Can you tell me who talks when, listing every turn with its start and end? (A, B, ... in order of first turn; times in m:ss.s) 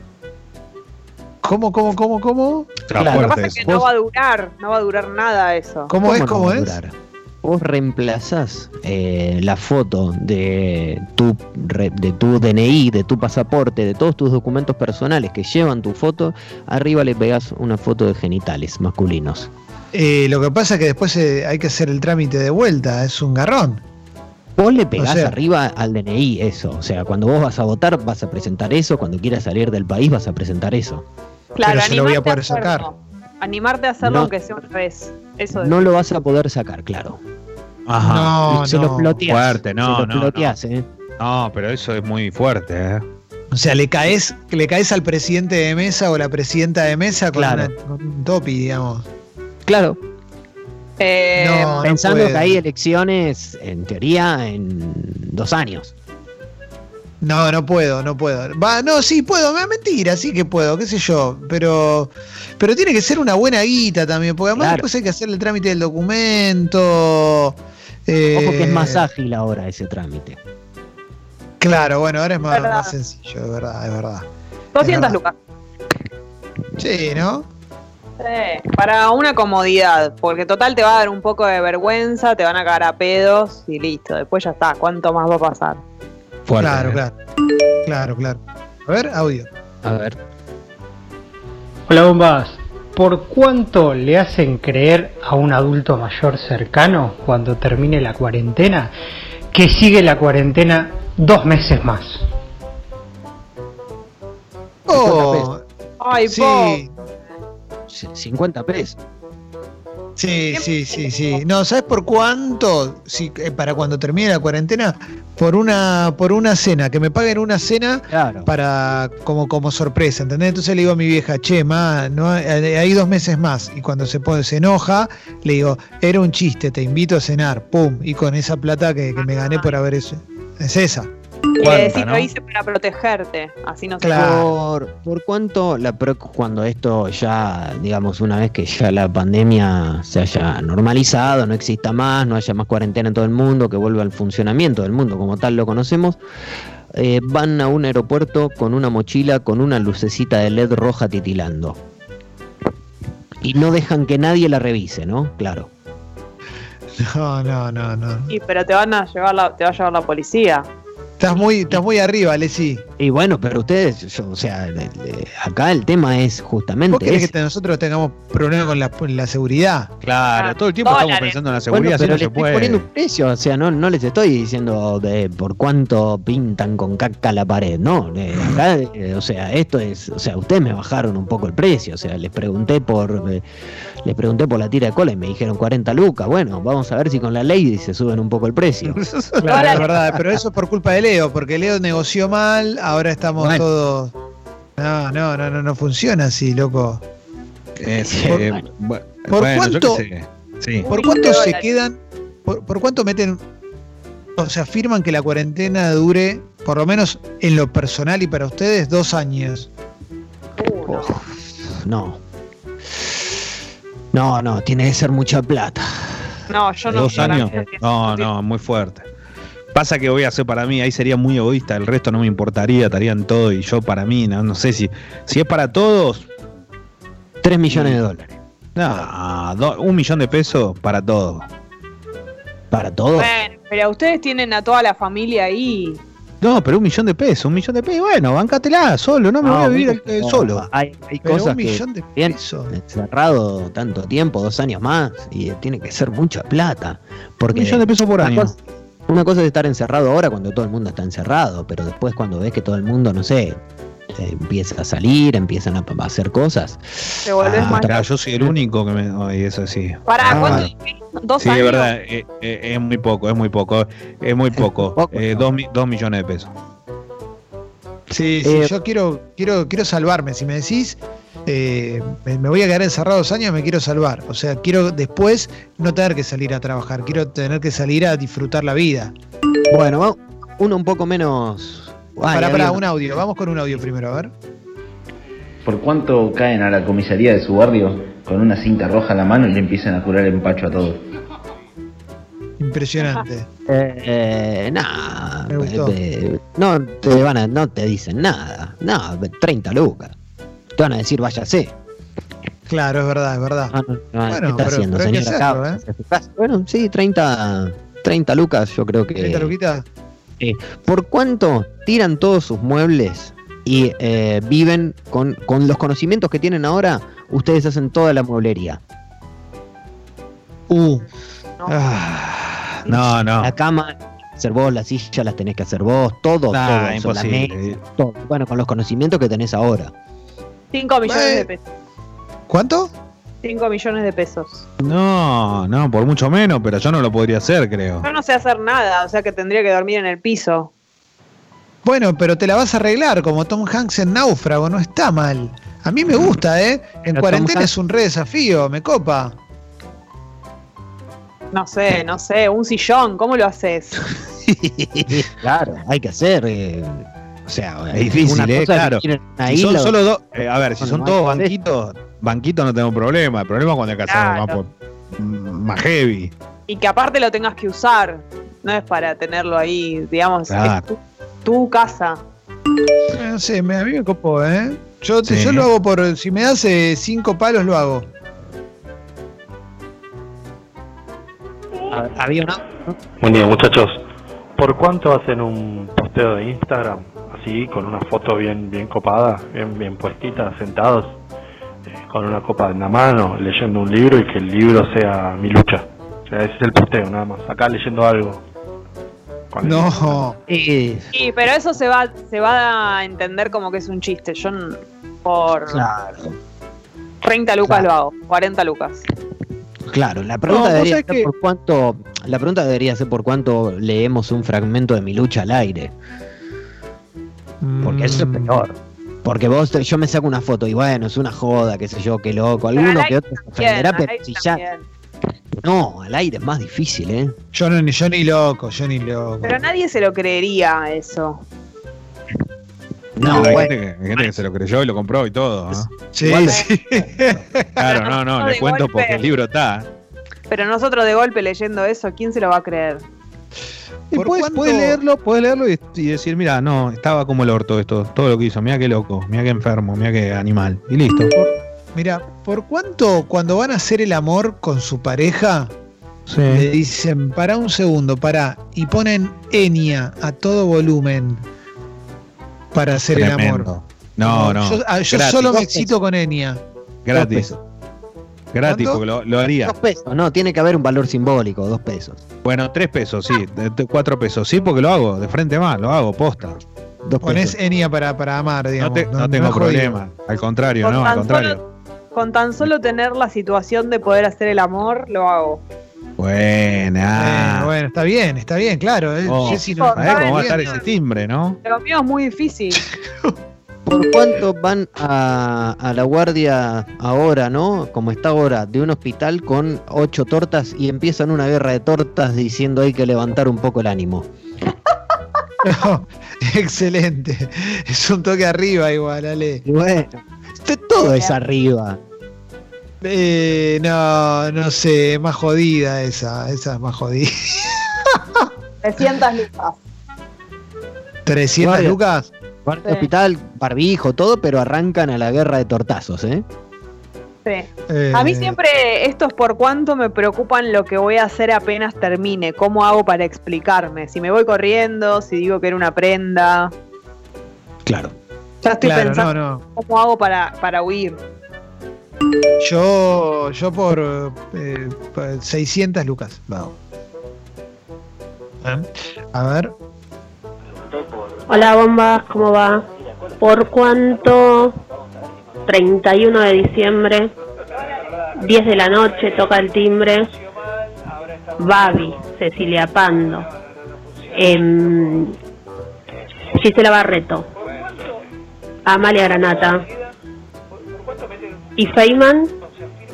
0:01.4-0:02.8 A
0:02.9-0:03.6 B
0:03.0-0:03.9 C
0:03.1-0:05.9 D
0:05.9-0:06.8 A
0:06.0-0:19.5 C
0:19.9-0:23.8 A
0:24.6-0:31.0 C
0:25.0-0:25.4 A
0:31.6-0:35.8 D
0:31.6-0:32.9 A
0:34.0-0:34.3 C
0:35.6-0:37.2 C
0:37.9-0:38.4 B
0:38.0-0:39.2 A
0:38.5-0:40.8 C
0:39.2-0:40.6 B
0:41.2-0:43.0 B
0:43.5-0:49.1 A
0:47.3-0:47.7 C
0:49.7-0:50.0 C
0:51.0-0:51.9 D
0:51.4-0:52.6 A
0:51.8-0:55.9 C
0:57.2-1:09.0 A
1:04.6-1:04.9 C
1:08.3-1:10.4 C
1:11.6-1:14.3 A
1:12.5-1:12.9 D
1:14.7-1:15.4 D
1:14.8-1:15.2 A
1:16.8-1:17.5 A
1:18.2-1:25.8 D
1:26.5-1:27.0 B
1:26.6-1:27.1 A
1:27.8-1:29.5 A
1:29.8-1:30.2 C
1:31.9-1:38.9 E
1:39.5-1:42.2 E
1:44.9-1:45.6 A
1:44.9-1:45.5 C
1:46.0-1:46.8 D
1:46.3-1:46.9 A
1:47.9-1:49.0 C
1:50.2-2:11.1 A
1:50.5-1:51.4 D
1:58.1-1:58.5 C
2:09.2-2:09.7 D
2:11.6-2:14.4 D
2:11.6-2:12.3 B
2:14.0-2:14.6 A
2:14.1-2:26.2 C
2:26.9-2:31.8 C
2:33.4-2:35.7 C
2:37.0-2:38.3 A
2:38.3-2:40.7 D
2:41.2-2:42.8 A
2:43.0-2:47.3 C
2:46.9-2:49.9 A
2:50.0-2:52.8 B
2:50.4-2:51.4 D
2:51.7-3:03.4 C
3:04.0-3:09.0 C
3:08.9-3:09.8 B
3:09.4-3:14.1 A
3:09.5-3:09.9 D
3:13.4-3:13.6 C
3:14.8-3:17.0 A
3:17.8-3:20.9 B
3:18.0-3:18.7 C
3:19.3-3:20.0 A
3:20.8-3:21.7 D
3:20.9-3:23.4 A
3:24.4-3:29.7 A
3:30.6-3:31.2 D
3:30.9-3:32.2 C
3:34.1-3:36.2 C
3:36.5-3:38.3 D
3:36.9-3:37.6 C
3:36.9-3:39.1 B
3:39.7-3:46.3 B
3:47.4-3:48.4 C
3:47.7-3:48.0 B
3:48.8-3:51.5 B
3:52.7-3:53.3 C
3:53.2-3:56.0 D
3:56.4-4:00.7 B
3:59.4-4:08.5 C
4:01.2-4:02.7 A
4:07.5-4:08.6 B
4:09.1-4:13.6 C
4:14.1-4:18.6 C
4:17.2-4:18.1 D
4:17.4-4:20.7 B
4:20.1-4:21.9 D
4:20.3-4:20.7 C
4:21.4-4:26.5 B
4:24.6-4:25.5 C
4:28.1-4:39.1 A
4:28.4-4:28.7 C
4:39.7-4:42.8 C
4:42.3-4:44.3 A
4:45.6-4:51.0 F
4:52.6-4:53.5 A
4:53.7-5:00.1 C
4:55.5-4:56.0 A
5:00.8-5:01.7 C
5:02.7-5:03.7 A
5:03.7-5:09.5 C
5:04.3-5:05.8 A
5:09.2-5:09.8 A
5:10.4-5:18.8 C
5:20.7-5:21.1 A
5:21.7-5:23.5 B
5:23.4-5:29.9 C
5:26.5-5:27.8 B
5:30.7-5:31.6 D
5:31.0-5:31.5 A
5:32.5-5:32.9 A
5:33.4-5:34.6 D
5:34.8-5:38.1 B
5:38.0-5:40.7 D
5:41.8-5:49.4 A
5:47.1-5:47.7 C
5:51.5-5:54.0 D
5:54.5-6:00.0 C
5:57.9-6:06.3 B
6:00.8-6:01.5 C
6:04.1-6:04.6 D
6:06.7-6:12.2 D
6:10.5-6:10.8 B
6:13.1-6:18.1 A
6:15.3-6:15.7 B
6:21.9-6:23.0 C
6:23.2-6:24.0 G
6:24.6-6:31.1 G
6:32.0-6:38.4 G
6:39.5-6:40.3 G
6:39.6-6:40.4 A
6:40.5-6:41.1 C
6:41.1-6:45.9 D
6:45.7-6:46.4 C
6:47.2-6:49.0 D
6:49.9-6:55.9 C
6:50.5-6:51.3 B
6:57.6-6:58.6 A
6:57.8-7:04.6 C
7:02.7-7:04.8 D
7:05.6-7:07.4 C
7:07.5-7:09.7 A
7:09.4-7:11.4 D
7:13.2-7:13.7 C
7:13.2-7:15.9 B
7:15.7-7:16.6 C
7:16.1-7:17.7 A
7:17.8-7:19.9 B
7:17.8-7:19.2 D
7:20.5-7:23.0 D
7:24.1-7:25.0 A
7:24.1-7:31.3 B
7:31.3-7:35.7 A
7:36.3-7:36.7 B
7:36.5-7:41.4 A
7:42.7-7:46.6 A
7:43.0-7:45.7 B
7:45.5-7:45.9 C
7:47.1-7:47.5 B
7:47.2-7:47.5 C
7:48.5-7:49.7 B
7:48.6-7:49.0 A
7:49.6-7:52.2 C
7:52.4-7:56.6 B
7:57.0-7:57.6 C
7:57.2-8:00.0 A
7:58.8-8:01.6 B
8:00.8-8:01.6 D
8:02.1-8:05.6 D
8:06.2-8:07.7 B
8:07.2-8:10.8 A
8:09.3-8:11.6 B
8:09.4-8:10.8 D
8:11.6-8:12.8 D
8:12.8-8:13.3 A
8:13.9-8:24.3 C
8:25.6-8:29.6 A
8:29.6-8:32.0 C
8:31.0-8:31.4 D
8:33.0-8:38.5 A
8:38.8-8:39.8 D
8:41.3-8:42.3 A
8:41.6-8:42.0 C
8:42.7-8:46.4 C
8:47.4-8:56.7 D
8:47.9-8:48.6 A
8:57.9-8:58.1 C
8:58.6-9:01.2 D
8:58.8-8:59.6 A
9:02.6-9:06.7 A
9:08.6-9:09.7 A
9:11.5-9:12.9 H
9:13.4-9:14.8 H
9:15.7-9:17.3 H
9:18.4-9:20.3 H
9:21.6-9:23.5 H
9:24.4-9:25.4 H
9:26.6-9:27.5 H
9:28.8-9:29.8 H
9:31.8-9:32.5 H